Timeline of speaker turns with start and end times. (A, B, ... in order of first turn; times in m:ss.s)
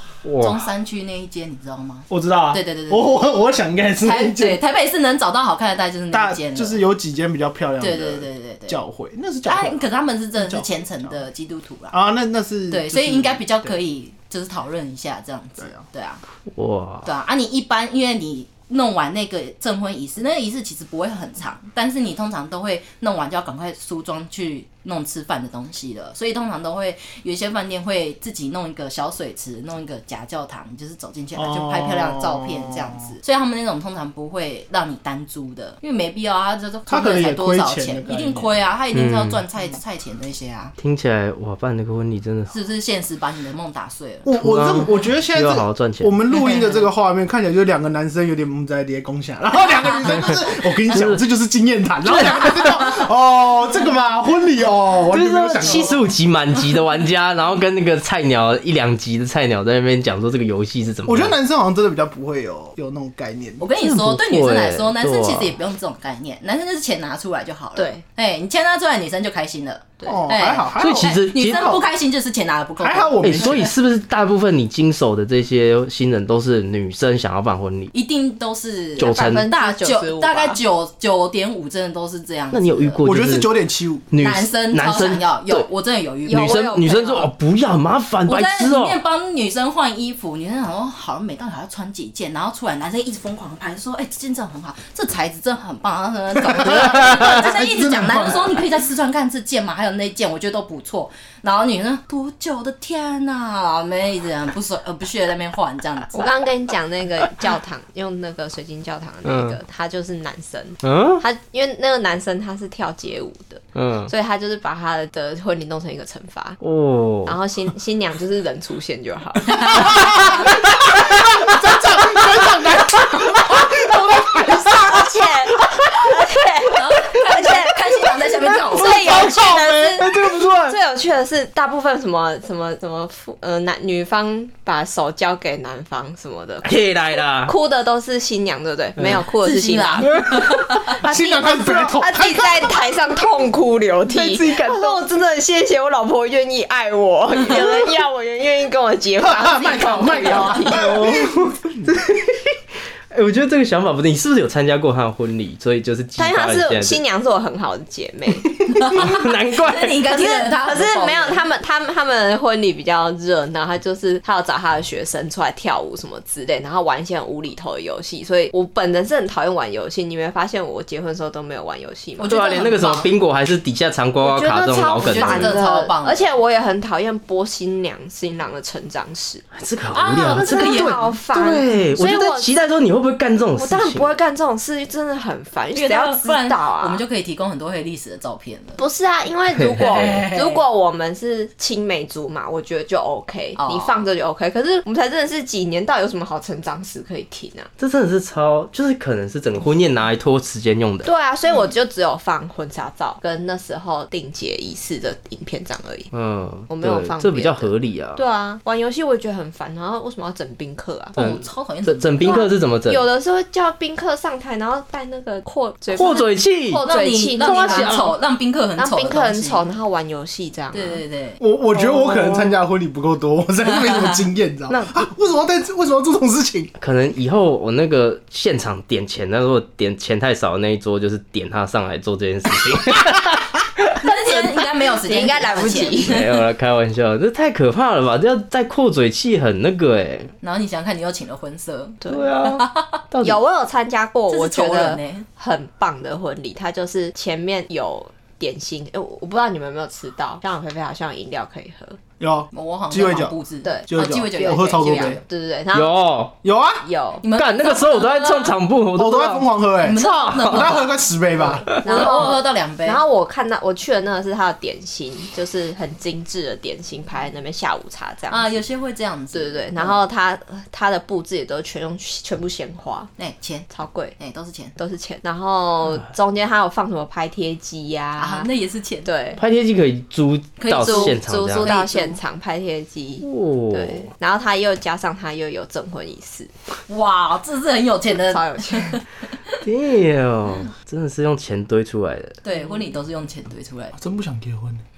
0:00.2-0:00.7 A
0:00.4-0:03.3 B
0:02.1-0:04.6 C
0:04.0-0:06.8 B
0:06.1-0:10.7 C
0:07.8-0:08.8 B
0:09.4-0:11.9 B
0:11.9-0:13.7 C
0:12.7-0:16.2 B
0:16.5-0:17.1 A
0:17.0-0:40.7 B
0:31.3-0:33.0 C
0:36.9-0:38.5 C
0:38.9-0:39.4 A
0:40.8-0:42.5 A
0:42.5-0:44.3 B
0:44.2-0:56.0 C
0:44.4-0:46.1 A
0:46.3-0:46.8 B
0:50.9-0:51.2 A
0:52.1-0:53.0 A
0:55.1-1:01.3 A
1:01.0-1:03.6 C
1:03.6-1:13.7 B
1:03.8-1:05.6 A
1:07.8-1:08.0 D
1:10.0-1:11.2 C
1:10.8-1:11.8 A
1:12.8-1:13.7 C
1:13.2-1:17.9 A
1:17.9-1:23.0 B
1:19.0-1:19.5 A
1:19.0-1:20.6 D
1:22.5-1:23.5 A
1:23.0-1:24.0 C
1:24.1-1:25.6 A
1:24.2-1:26.5 B
1:26.2-1:27.3 D
1:26.3-1:29.0 A
1:28.3-1:46.3 B
1:36.4-1:38.7 C
1:37.0-1:37.3 A
1:46.1-1:56.6 D
1:49.2-1:49.6 A
1:50.8-1:51.2 A
1:53.7-1:54.1 A
1:56.6-1:57.4 A
1:57.2-2:01.5 D
1:59.7-2:06.1 C
1:59.8-2:00.4 B
2:04.6-2:10.1 D
2:06.7-2:09.3 B
2:08.5-2:10.8 C
2:10.6-2:16.8 D
2:16.6-2:17.5 A
2:17.4-2:20.3 D
2:19.4-2:21.0 B
2:20.9-2:31.2 D
2:21.0-2:22.8 C
2:24.1-2:25.0 A
2:29.2-2:31.8 C
2:29.4-2:30.9 B
2:30.8-2:32.4 A
2:33.1-2:37.0 A
2:36.2-2:39.0 D
2:38.6-2:40.0 A
2:38.8-2:41.4 B
2:40.1-2:53.1 D
2:52.2-2:53.1 B
2:52.3-2:55.6 A
2:54.2-2:59.4 D
2:55.0-2:56.3 B
2:59.5-3:04.1 A
2:59.9-3:01.0 B
3:00.3-3:02.5 D
3:03.5-3:07.0 D
3:05.7-3:08.8 B
3:08.8-3:17.7 D
3:09.6-3:10.0 A
3:09.8-3:10.6 B
3:13.6-3:14.0 B
3:17.8-3:21.1 A
3:21.0-3:26.1 D
3:26.1-3:28.2 A
3:26.7-3:31.2 D
3:31.2-3:32.4 B
3:31.2-3:33.0 A
3:32.2-3:38.0 D
3:35.9-3:36.8 A
3:36.8-3:39.6 B
3:37.4-3:38.1 A
3:38.8-3:41.0 D
3:40.7-3:41.4 B
3:41.4-3:46.7 C
3:41.8-3:42.4 A
3:44.7-3:45.0 A
3:46.8-3:54.0 A
3:54.0-3:56.4 B
3:55.0-3:56.2 D
3:55.8-4:00.3 A
4:00.4-4:03.0 B
4:02.0-4:03.4 A
4:03.2-4:12.0 D
4:04.3-4:05.2 B
4:12.2-4:13.4 C
4:12.5-4:15.2 B
4:13.6-4:16.0 D
4:13.9-4:15.2 C
4:15.7-4:16.3 A
4:16.4-4:16.8 C
4:16.8-4:17.2 D
4:17.2-4:18.6 B
4:17.3-4:20.8 A
4:18.9-4:21.8 C
4:19.8-4:21.0 B
4:21.7-4:23.0 B
4:21.8-4:28.6 D
4:28.3-4:30.0 B
4:29.3-4:33.1 D
4:33.2-4:34.8 B
4:33.7-4:34.2 D
4:34.8-4:38.5 D
4:38.2-4:39.1 B
4:39.0-4:39.4 D
4:39.4-4:41.7 A
4:40.6-4:42.2 B
4:40.8-4:46.5 D
4:43.2-4:44.1 A
4:46.9-4:49.5 B
4:48.3-4:49.0 D
4:49.6-4:52.4 A
4:52.4-4:54.0 B
4:54.0-4:54.8 C